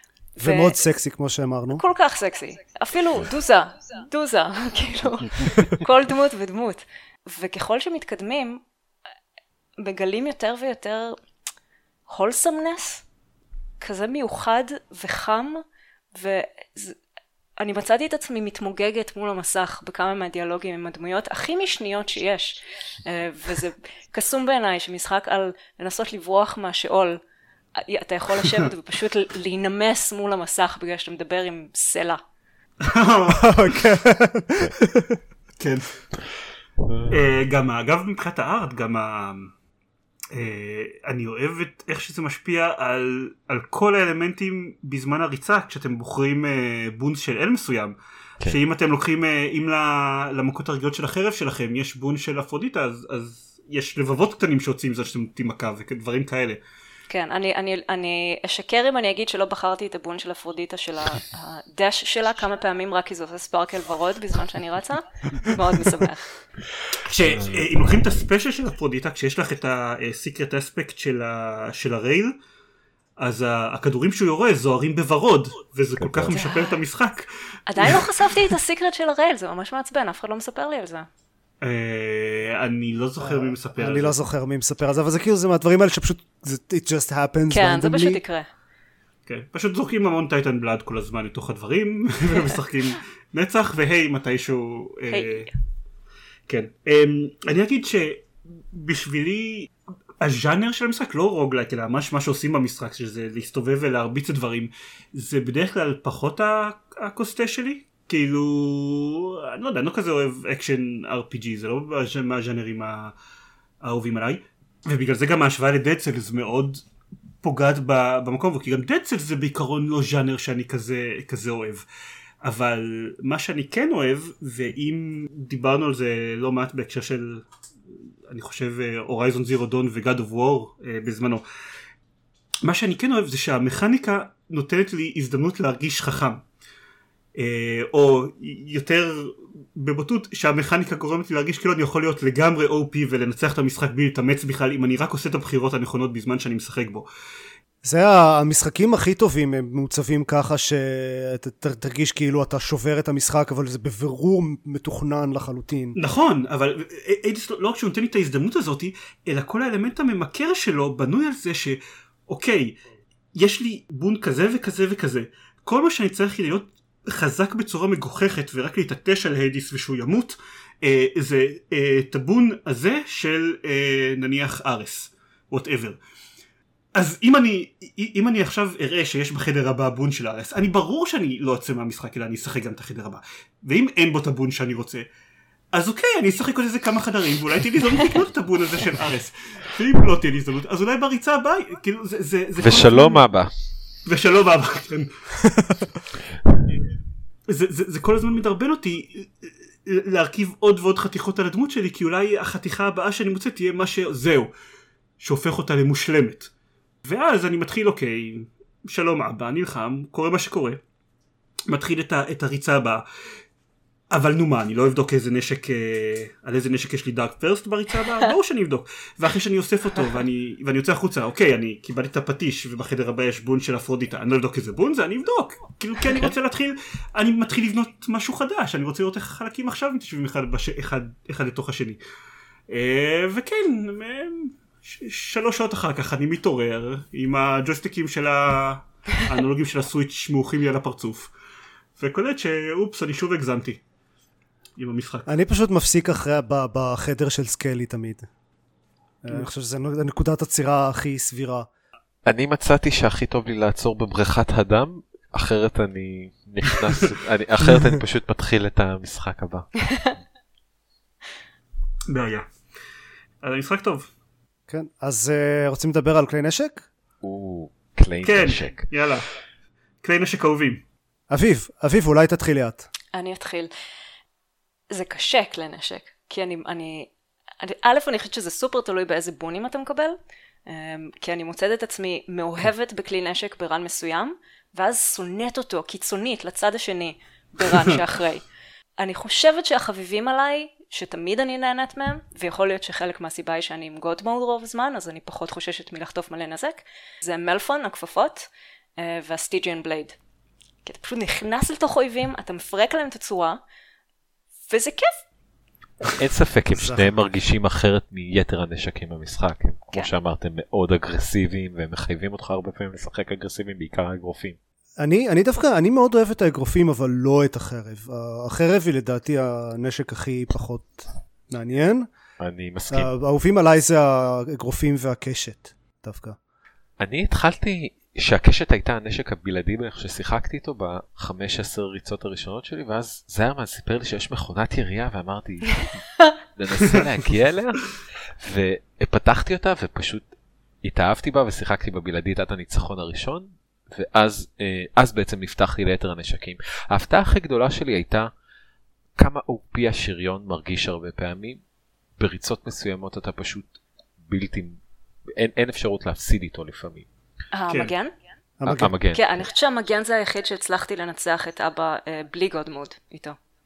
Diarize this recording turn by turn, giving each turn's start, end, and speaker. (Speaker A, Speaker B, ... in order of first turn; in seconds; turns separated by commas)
Speaker A: 0.4-0.8, Speaker B: 0.4-1.8, Speaker A: 1.7-8.6, Speaker A: 9.8-11.2, Speaker A: 12.1-13.0, Speaker A: 13.8-15.6, Speaker A: 16.1-17.0, Speaker A: 17.6-27.2, Speaker A: 27.8-32.2, Speaker C: 32.8-33.8, Speaker B: 33.3-35.2, Speaker C: 35.6-35.9, Speaker D: 36.8-37.1, Speaker C: 37.1-39.5, Speaker C: 40.3-56.6, Speaker A: 57.1-66.3, Speaker C: 67.0-72.3, Speaker D: 67.2-67.7, Speaker C: 73.2-78.3, Speaker D: 76.0-76.3, Speaker A: 76.3-76.8, Speaker A: 77.7-81.1, Speaker C: 81.6-84.2, Speaker B: 83.2-88.2, Speaker A: 87.5-88.5, Speaker C: 89.3-95.5, Speaker A: 95.1-95.5, Speaker C: 96.5-99.7, Speaker C: 100.2-113.1, Speaker C: 113.8-116.8, Speaker C: 117.4-121.8, Speaker C: 122.4-127.5, Speaker C: 128.3-131.4, Speaker C: 132.6-136.4, Speaker C: 137.4-147.1, Speaker B: 147.8-156.0, Speaker C: 155.9-162.8, Speaker C: 163.3-176.0, Speaker C: 176.9-185.0, Speaker C: 185.7-193.2, Speaker D: 192.6-193.5, Speaker C: 194.1-195.1, Speaker B: 195.5-195.8, Speaker C: 197.5-204.5, Speaker C: 205.2-206.5, Speaker C: 207.0-210.8, Speaker C: 211.7-213.0, Speaker C: 214.1-232.0, Speaker C: 232.7-241.3, Speaker C: 242.0-243.8, Speaker C: 244.8-245.3, Speaker B: 245.3-248.3, Speaker B: 249.2-251.7, Speaker D: 252.2-260.1, Speaker C: 262.1-262.4, Speaker C: 263.4-264.1, Speaker B: 264.7-266.9, Speaker D: 267.2-268.9, Speaker C: 268.2-269.3, Speaker C: 270.0-270.8, Speaker B: 271.3-272.9, Speaker A: 273.1-273.7, Speaker A: 274.9-288.4, Speaker A: 289.0-300.1, Speaker A: 300.8-303.6, Speaker A: 304.7-305.2, Speaker D: 306.1-314.6, Speaker B: 306.7-307.1, Speaker B: 315.0-322.1, Speaker D: 322.4-323.1, Speaker B: 322.9-326.4, Speaker D: 327.0-340.3, Speaker D: 340.8-348.3, Speaker D: 349.1-351.6, Speaker D: 352.2-354.8, Speaker D: 355.3-357.1, Speaker A: 357.5-358.1, Speaker B: 358.6-358.9, Speaker D: 358.6-359.2, Speaker A: 359.1-363.4